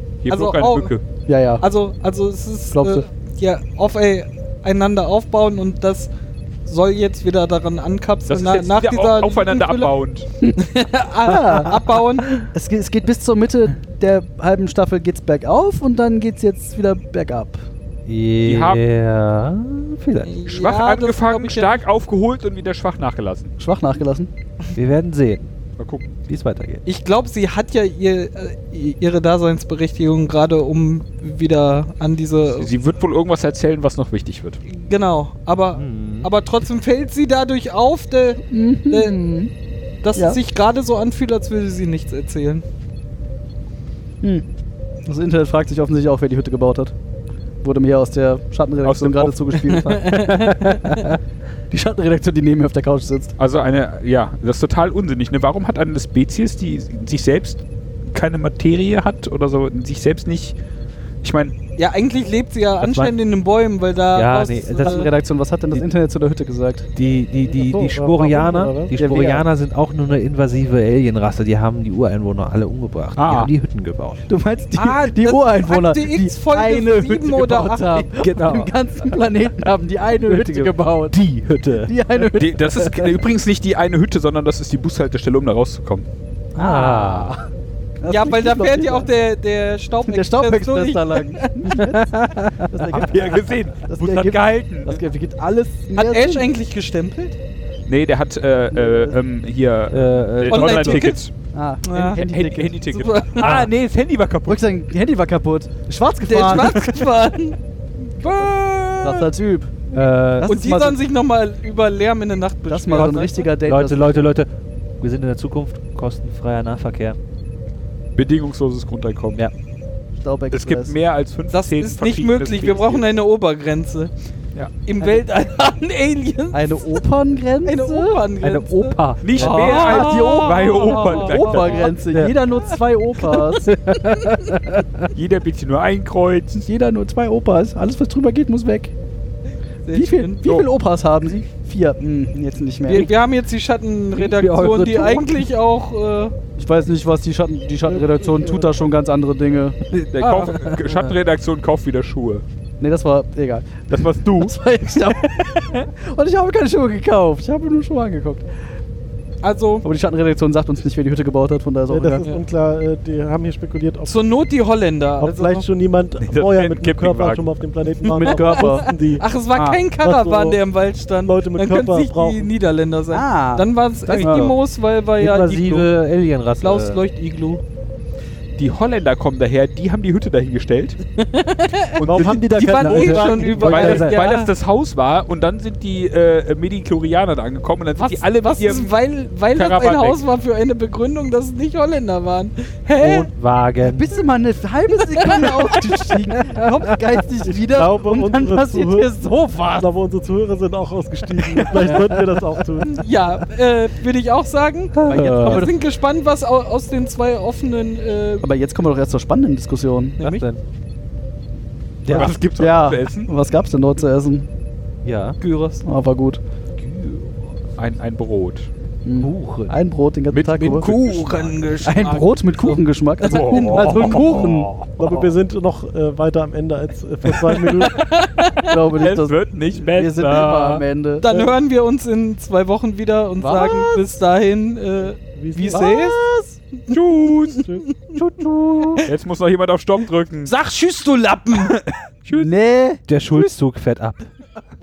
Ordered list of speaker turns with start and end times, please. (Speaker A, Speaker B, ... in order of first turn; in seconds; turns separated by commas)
Speaker A: 0.2-1.0, Speaker B: 0.3-0.9, Speaker C: 1.2-1.6, Speaker B: 1.6-6.1, Speaker C: 2.7-3.0, Speaker B: 6.7-9.9, Speaker A: 8.3-10.3, Speaker B: 10.6-12.4, Speaker C: 11.2-11.8, Speaker C: 12.5-17.6, Speaker D: 18.1-20.4, Speaker A: 18.4-18.8, Speaker B: 20.2-21.8, Speaker A: 20.4-23.5, Speaker C: 23.6-24.3, Speaker D: 24.7-25.5, Speaker A: 25.8-26.1, Speaker D: 26.3-26.8, Speaker B: 26.9-32.7, Speaker A: 32.5-34.6, Speaker B: 34.7-39.1, Speaker D: 35.7-36.3, Speaker C: 38.5-39.5, Speaker B: 40.0-42.6, Speaker C: 45.0-46.9, Speaker C: 47.6-51.1, Speaker A: 48.8-49.7, Speaker B: 49.7-51.0, Speaker C: 51.7-53.3, Speaker A: 53.4-60.5, Speaker A: 61.2-61.5, Speaker B: 61.8-65.1, Speaker D: 62.8-63.1, Speaker D: 64.1-65.1, Speaker C: 64.8-66.9, Speaker D: 67.0-74.2, Speaker E: 67.5-69.0, Speaker C: 68.9-69.5, Speaker A: 73.2-73.5, Speaker C: 74.3-81.2, Speaker B: 74.8-78.1, Speaker A: 78.2-78.7, Speaker D: 78.3-78.7, Speaker D: 80.2-81.9, Speaker A: 81.2-86.0, Speaker C: 81.8-83.2, Speaker D: 86.5-87.4, Speaker C: 86.5-87.5, Speaker C: 88.0-89.1, Speaker B: 88.1-91.5, Speaker C: 90.0-96.5, Speaker D: 91.8-92.9, Speaker A: 93.0-95.0, Speaker B: 95.9-97.4, Speaker A: 97.9-101.3, Speaker C: 98.7-99.2, Speaker D: 99.9-101.0, Speaker B: 100.5-101.2, Speaker C: 101.5-102.8, Speaker B: 101.8-102.2, Speaker A: 102.1-104.6, Speaker B: 102.9-103.7, Speaker D: 103.4-103.7, Speaker C: 104.5-106.9, Speaker B: 106.3-107.6, Speaker A: 106.6-107.0, Speaker B: 108.2-109.3, Speaker C: 108.2-109.8, Speaker D: 109.9-110.5, Speaker C: 110.3-111.0, Speaker B: 110.4-113.4, Speaker C: 112.7-114.3, Speaker D: 112.9-117.2, Speaker A: 118.1-119.4, Speaker C: 120.2-120.9, Speaker A: 120.5-123.0, Speaker B: 121.5-124.1, Speaker B: 124.8-127.0, Speaker C: 126.5-128.2, Speaker B: 127.6-131.9, Speaker D: 128.4-129.8, Speaker A: 129.2-131.9, Speaker C: 129.4-133.7, Speaker D: 133.6-135.0, Speaker A: 135.1-136.6, Speaker C: 136.6-138.9, Speaker B: 139.8-140.4, Speaker C: 139.9-143.1, Speaker B: 142.9-146.3, Speaker D: 144.1-145.4, Speaker C: 146.6-149.8, Speaker E: 147.9-148.7, Speaker A: 150.1-152.4, Speaker B: 150.2-150.5, Speaker D: 150.4-151.1, Speaker C: 152.8-158.5, Speaker A: 153.9-155.8, Speaker B: 159.4-159.8, Speaker C: 159.8-162.2, Speaker E: 161.9-164.2, Speaker B: 164.0-165.7, Speaker E: 165.2-169.2, Speaker A: 166.2-167.4, Speaker B: 168.0-175.9, Speaker C: 168.1-168.9, Speaker C: 169.6-169.8, Speaker E: 170.0-170.6, Speaker E: 171.2-172.5, Speaker C: 173.1-173.7, Speaker A: 174.1-174.5, Speaker C: 174.2-174.4, Speaker D: 174.2-174.5, Speaker D: 175.2-177.0, Speaker B: 176.6-177.6, Speaker A: 178.6-181.0, Speaker B: 181.2-184.5, Speaker A: 181.9-188.9, Speaker E: 182.0-184.0, Speaker D: 182.8-184.2, Speaker B: 188.0-193.3, Speaker A: 189.6-190.2, Speaker E: 193.0-193.3, Speaker D: 193.3-194.2, Speaker C: 193.8-199.9, Speaker B: 195.1-196.2, Speaker D: 196.4-196.9, Speaker E: 197.4-199.1, Speaker E: 199.7-203.0, Speaker C: 201.7-202.1, Speaker B: 202.9-208.4, Speaker D: 204.9-205.7, Speaker C: 205.0-205.8, Speaker C: 208.4-210.2, Speaker D: 210.2-210.6, Speaker C: 212.0-214.5, Speaker A: 212.1-213.3, Speaker D: 215.0-215.4, Speaker B: 215.4-215.8, Speaker C: 215.8-216.4, Speaker A: 216.8-218.7, Speaker C: 219.0-220.9, Speaker D: 219.2-219.7, Speaker A: 220.3-221.6, Speaker B: 220.6-222.8, Speaker C: 221.8-224.7, Speaker A: 223.2-224.6, Speaker B: 223.4-223.8, Speaker D: 223.9-224.9, Speaker E: 225.0-228.1, Speaker B: 227.6-228.7, Speaker C: 228.6-231.4, Speaker A: 229.0-230.8, Speaker B: 231.2-236.2, Speaker C: 233.4-234.0, Speaker E: 235.3-235.9, Speaker C: 235.6-236.6, Speaker B: 236.9-238.1, Speaker A: 236.9-237.7, Speaker C: 238.1-239.0, Speaker A: 239.0-240.5, Speaker B: 240.4-241.7, Speaker A: 241.5-242.5, Speaker C: 242.3-243.0, Speaker D: 243.1-244.3